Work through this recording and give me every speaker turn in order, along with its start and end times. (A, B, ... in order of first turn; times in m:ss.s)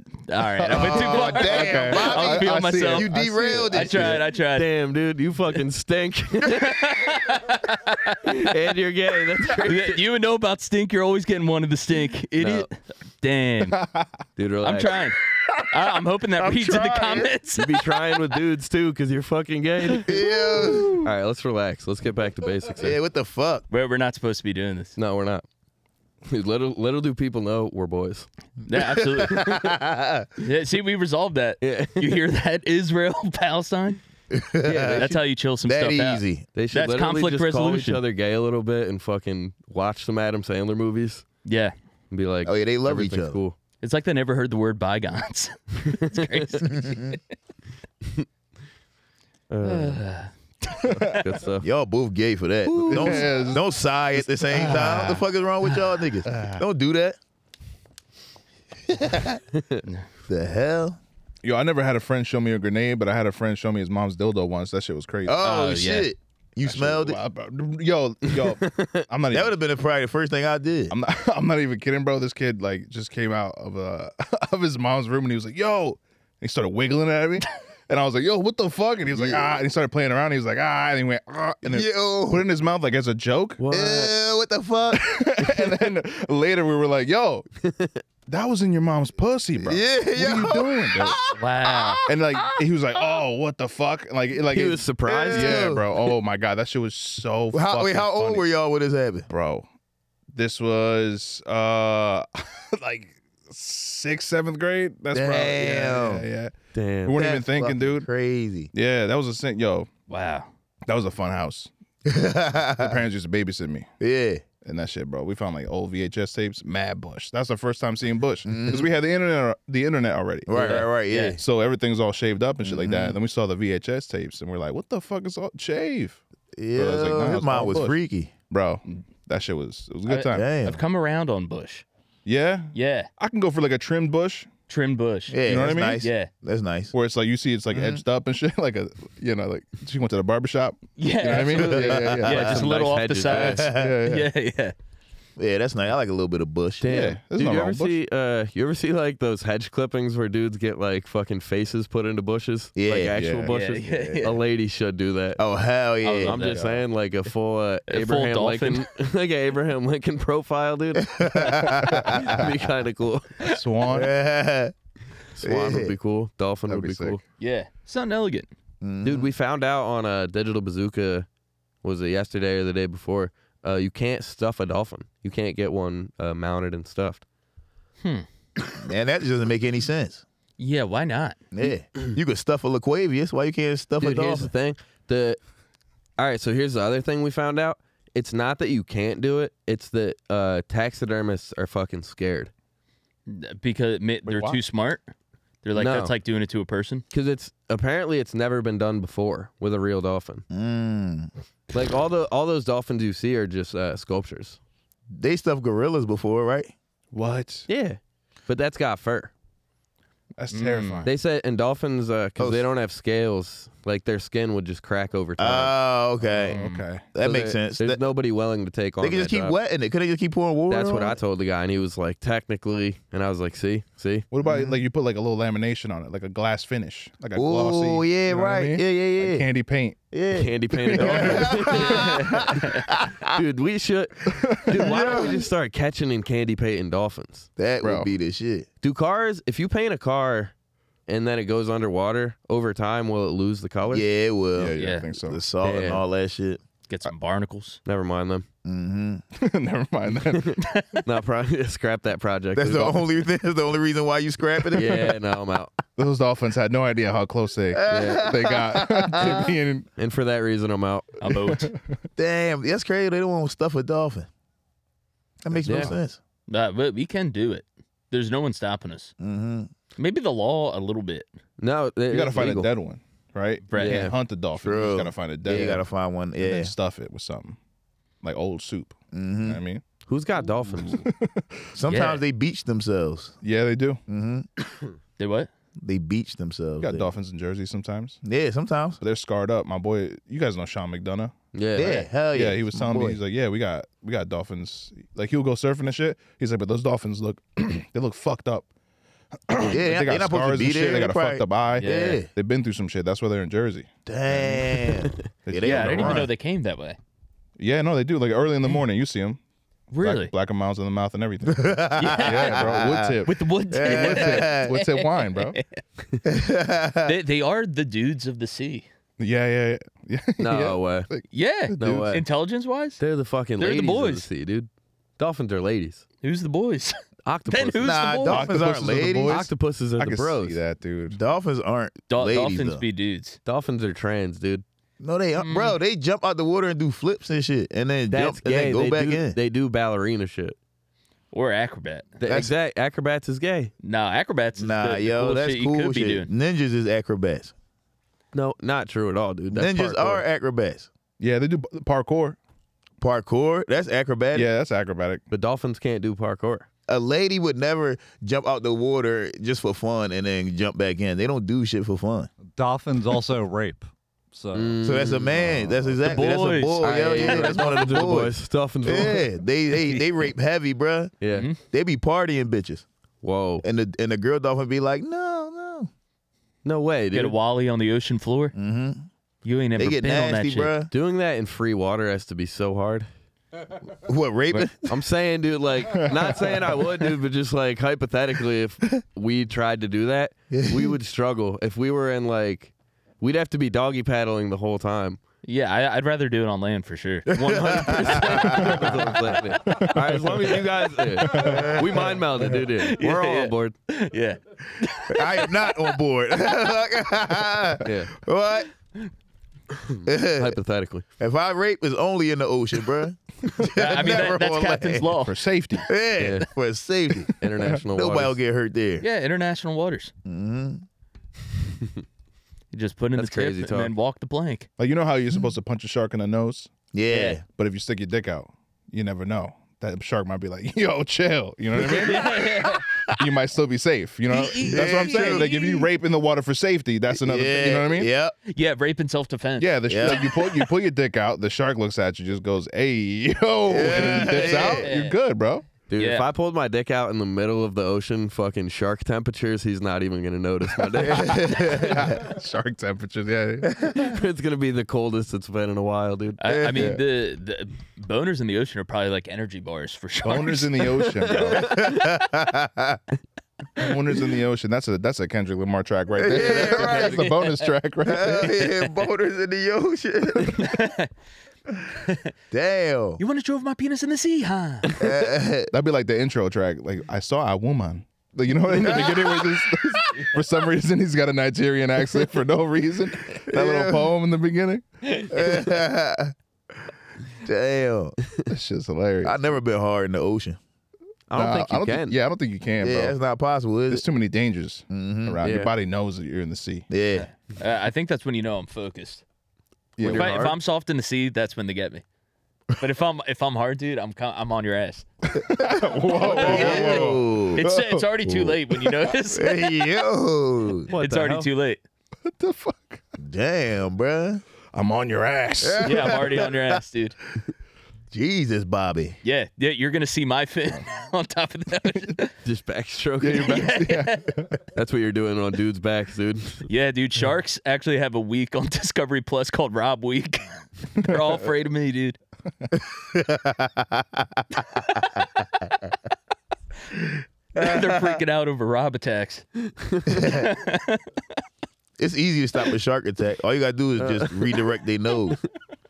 0:00.3-0:04.7 A
0:00.6-0:04.2 B
0:00.7-0:04.2 C
0:04.5-0:06.8 D
0:06.5-0:08.4 A
0:08.2-0:10.0 D
0:09.6-0:13.8 A
0:12.4-0:12.7 D
0:13.7-0:14.1 B
0:14.4-0:14.9 D
0:14.6-0:17.8 A
0:16.4-0:17.3 C
0:17.6-0:20.1 D
0:20.0-0:21.0 C
0:20.1-0:21.0 A
0:21.0-0:23.0 D
0:22.7-0:23.7 C
0:23.7-0:25.0 A
0:25.0-0:25.4 D
0:26.3-0:28.3 D
0:28.7-0:29.6 A
0:28.8-0:30.3 C
0:30.4-0:34.0 A
0:31.6-0:32.2 D
0:34.3-0:36.5 C
0:34.6-0:35.2 D
0:34.8-0:36.2 A
0:36.6-0:41.2 D
0:36.7-0:38.0 A
0:41.4-0:41.7 A
0:42.1-0:43.6 D
0:42.4-0:43.4 C
0:43.8-0:47.2 A
0:45.9-0:46.4 D
0:46.6-0:47.2 C
0:49.5-0:50.0 D
0:49.6-0:51.2 A
0:50.9-0:51.2 B
0:50.9-0:51.7 D
0:51.6-0:57.2 C
0:52.7-0:53.3 D
0:52.9-0:55.2 B
0:56.3-0:56.6 B
0:58.9-0:59.4 C
0:59.5-0:59.8 D
1:00.3-1:01.0 C
1:01.4-1:05.4 B
1:05.2-1:07.2 C
1:05.4-1:06.1 A
1:06.6-1:09.6 B
1:08.4-1:09.0 D
1:09.3-1:10.9 C
1:10.9-1:23.6 B
1:19.1-1:19.6 C
1:21.6-1:22.5 C
1:23.6-1:24.1 D
1:23.7-1:25.5 C
1:24.9-1:27.5 B
1:27.6-1:28.0 D
1:28.3-1:31.2 B
1:29.6-1:32.4 C
1:31.3-1:32.0 A
1:32.1-1:38.4 B
1:34.5-1:35.7 D
1:35.1-1:36.1 C
1:37.5-1:39.3 C
1:39.3-1:39.7 B
1:40.3-1:46.5 B
1:45.1-1:46.3 C
1:46.7-1:47.2 D
1:47.0-1:48.1 B
1:47.1-1:48.7 C
1:48.7-1:49.9 B
1:50.1-1:50.5 A
1:50.9-1:51.7 B
1:52.1-1:53.0 C
1:52.8-1:53.9 B
1:54.0-1:54.4 C
1:54.6-2:00.8 B
1:58.4-1:58.9 C
2:00.5-2:01.4 C
2:00.5-2:01.4 A
2:01.4-2:06.2 B
2:02.6-2:03.2 C
2:06.6-2:08.3 C
2:06.8-2:08.0 B
2:08.5-2:10.5 B
2:10.1-2:11.8 A
2:10.3-2:10.8 C
2:12.3-2:14.5 B
2:12.7-2:13.1 A
2:14.7-2:16.3 A
2:15.3-2:16.9 C
2:15.5-2:16.0 B
2:16.9-2:22.7 B
2:17.7-2:18.0 C
2:21.0-2:24.7 A
2:21.6-2:22.5 C
2:22.3-2:23.6 D
2:23.3-2:24.0 C
2:23.6-2:24.3 B
2:25.4-2:26.9 C
2:26.8-2:35.4 D
2:26.9-2:28.0 B
2:32.8-2:33.2 C
2:33.1-2:34.2 B
2:33.5-2:34.4 A
2:35.4-2:36.4 C
2:36.0-2:36.8 A
2:36.2-2:43.4 D
2:37.9-2:38.9 A
2:41.0-2:42.4 C
2:41.6-2:42.5 B
2:43.4-2:44.1 B
2:43.9-2:44.7 C
2:45.3-2:47.2 D
2:45.4-2:45.9 C
2:46.7-2:47.2 B
2:47.4-2:48.5 A
2:48.8-2:49.3 C
2:49.0-2:51.3 D
2:51.8-2:57.2 D
2:58.7-3:00.2 C
3:00.6-3:01.4 A
3:01.5-3:04.5 C
3:04.0-3:05.4 D
3:06.2-3:12.5 D
3:13.3-3:15.0 A
3:14.3-3:14.6 B
3:15.6-3:17.0 A
3:15.8-3:16.1 D
3:17.1-3:20.4 D
3:20.5-3:21.3 C
3:21.7-3:24.6 D
3:25.1-3:26.7 C
3:27.1-3:27.7 B
3:27.7-3:29.3 D
3:30.4-3:31.1 B
3:30.5-3:31.1 A
3:31.0-3:35.7 D
3:32.4-3:32.7 C
3:35.4-3:36.6 C
3:36.3-3:37.0 B
3:36.4-3:36.9 A
3:37.1-3:38.0 C
3:37.2-3:39.6 D
3:39.0-3:41.2 C
3:40.7-3:44.3 D
3:44.3-3:50.0 B
3:44.4-3:44.8 C
3:47.4-3:49.4 C
3:50.1-3:53.4 C
3:50.3-3:52.5 D
3:50.9-3:52.1 B
3:51.8-3:52.4 A
3:53.3-3:57.5 D
3:54.3-3:54.9 B
3:54.7-3:55.4 C
3:57.6-3:58.7 C
3:57.8-3:58.1 B
3:58.8-4:00.5 D
4:01.1-4:04.0 D
4:03.9-4:06.6 C
4:04.6-4:05.4 B
4:04.8-4:05.1 A
4:05.6-4:06.0 D
4:06.9-4:07.8 A
4:07.8-4:08.5 D
4:08.6-4:09.2 C
4:09.4-4:10.6 B
4:10.3-4:13.0 D
4:10.6-4:11.0 A
4:12.6-4:15.2 C
4:14.7-4:15.7 D
4:16.0-4:19.9 B
4:17.7-4:19.6 C
4:17.9-4:18.3 D
4:20.0-4:21.1 D
4:21.2-4:21.7 A
4:21.3-4:22.0 B
4:22.2-4:24.3 C
4:25.4-4:26.2 C
4:25.6-4:25.9 D
4:25.7-4:26.0 B
4:26.5-4:29.1 A
4:29.2-4:29.7 C
4:30.0-4:31.3 A
4:31.6-4:32.7 D
4:32.1-4:35.8 B
4:33.7-4:34.1 A
4:33.8-4:34.2 D
4:34.6-4:36.7 C
4:35.5-4:35.8 D
4:36.4-4:37.6 B
4:38.2-4:39.8 B
4:39.1-4:39.6 C
4:40.1-4:41.0 D
4:40.5-4:41.5 B
4:41.8-4:43.4 C
4:41.9-4:42.2 A
4:43.4-4:44.0 B
4:44.1-4:44.5 C
4:45.2-4:45.5 A
4:45.8-4:47.1 C
4:46.8-4:48.2 B
4:48.2-4:49.0 C
4:49.0-4:51.3 B
4:51.5-4:52.1 D
4:51.8-4:53.2 C
4:52.3-4:58.7 B
4:59.5-5:06.3 B
4:59.6-5:02.3 C
5:01.8-5:02.2 A
5:04.1-5:06.3 C
5:05.6-5:07.0 A
5:07.6-5:09.4 B
5:09.9-5:10.3 A
5:10.0-5:15.6 B
5:11.5-5:14.8 C
5:12.0-5:15.8 A
5:16.2-5:17.1 C
5:17.0-5:18.9 A
5:19.2-5:22.2 B
5:20.4-5:21.1 D
5:21.3-5:23.0 A
5:21.8-5:22.2 D
5:23.0-5:26.0 D
5:23.6-5:24.3 A
5:26.2-5:27.0 A
5:27.2-5:27.9 D
5:27.5-5:28.5 A
5:27.8-5:29.4 C
5:28.3-5:31.2 B
5:29.2-5:30.6 D
5:31.1-5:32.8 C
5:32.1-5:33.4 A
5:33.4-5:34.6 D
5:35.0-5:39.4 C
5:35.4-5:35.8 A
5:38.1-5:40.6 D
5:41.3-5:42.2 A
5:42.2-5:43.7 D
5:42.3-5:42.5 C
5:43.8-5:46.3 A
5:44.6-5:47.5 C
5:48.3-5:50.2 D
5:49.5-5:50.9 C
5:51.2-5:52.4 B
5:53.0-5:54.5 C
5:54.3-5:55.2 B
5:55.3-5:56.7 D
5:56.9-6:02.3 C
6:02.6-6:05.1 E
6:04.5-6:06.2 D
6:04.8-6:11.1 C
6:06.0-6:07.8 A
6:06.8-6:09.3 D
6:11.2-6:11.5 D
6:11.3-6:11.6 A
6:11.7-6:12.9 C
6:13.2-6:13.6 D
6:13.6-6:15.9 C
6:16.6-6:17.4 D
6:17.1-6:18.5 A
6:18.6-6:19.1 C
6:19.4-6:20.7 A
6:19.8-6:20.9 C
6:20.9-6:23.1 D
6:23.9-6:24.9 C
6:24.9-6:35.2 D
6:25.9-6:26.6 B
6:30.5-6:31.0 C
6:35.4-6:39.3 A
6:37.3-6:38.9 C
6:37.4-6:43.7 D
6:38.6-6:39.1 B
6:39.7-6:40.6 B
6:41.3-6:41.8 B
6:41.3-6:42.2 C
6:42.5-6:46.0 A
6:45.1-6:48.7 C
6:47.8-6:48.1 D
6:49.7-6:51.0 D
6:50.1-6:50.6 C
6:51.2-6:55.2 C
6:53.6-6:55.4 A
6:55.2-6:55.9 B
6:55.8-6:59.0 C
6:56.2-6:56.5 D
6:57.4-6:58.4 D
6:59.0-7:00.1 A
7:00.2-7:00.8 C
7:02.7-7:04.7 A
7:03.2-7:03.9 D
7:04.8-7:06.7 B
7:06.9-7:07.4 C
7:07.1-7:07.4 A
7:07.5-7:12.6 B
7:11.8-7:12.8 A
7:11.8-7:13.2 C
7:13.2-7:18.1 B
7:14.3-7:15.9 A
7:14.6-7:15.5 C
7:17.1-7:18.4 C
7:18.5-7:20.7 A
7:19.6-7:25.7 B
7:19.9-7:20.3 C
7:23.7-7:24.9 C
7:23.9-7:25.2 A
7:25.9-7:31.5 D
7:26.0-7:26.3 A
7:31.0-7:32.2 C
7:31.0-7:34.1 B
7:33.7-7:34.0 C
7:33.9-7:36.4 D
7:36.4-7:41.4 A
7:36.4-7:37.0 C
7:36.7-7:37.0 B
7:40.2-7:42.0 B
7:41.2-7:42.0 D
7:41.5-7:43.0 C
7:43.8-7:48.6 B
7:46.2-7:47.3 C
7:46.3-7:47.7 A
7:48.0-7:50.7 C
7:48.4-7:48.9 A
7:50.5-7:51.1 A
7:52.5-7:53.2 C
7:53.2-7:55.0 A
7:54.9-7:55.7 C
7:55.7-8:04.8 B
7:58.7-7:59.9 C
8:03.5-8:04.1 C
8:05.2-8:06.3 C
8:07.4-8:08.2 C
8:08.5-8:09.6 B
8:09.2-8:10.6 C
8:11.3-8:12.2 D
8:11.3-8:13.2 B
8:12.8-8:14.0 C
8:13.9-8:16.9 B
8:14.9-8:15.4 C
8:15.4-8:15.7 D
8:16.9-8:17.3 C
8:17.2-8:19.2 A
8:20.0-8:20.4 B
8:20.0-8:20.6 D
8:20.1-8:22.0 A
8:22.8-8:25.1 A
8:25.3-8:28.4 B
8:25.6-8:27.6 C
8:26.2-8:29.9 A
8:29.3-8:30.9 C
8:30.9-8:31.5 D
8:31.0-8:31.8 A
8:32.2-8:33.0 B
8:33.2-8:34.4 C
8:34.7-8:36.2 B
8:35.6-8:36.8 C
8:35.8-8:37.2 A
8:38.1-8:39.2 C
8:39.2-8:42.3 A
8:42.4-8:43.6 D
8:43.2-8:44.6 B
8:43.3-8:44.4 A
8:44.7-8:46.7 D
8:46.7-8:52.2 A
8:53.0-8:54.5 C
8:57.6-8:58.2 C
8:57.6-8:59.5 A
9:00.0-9:01.0 A
9:00.1-9:00.5 C
9:02.0-9:05.4 C
9:04.0-9:04.5 D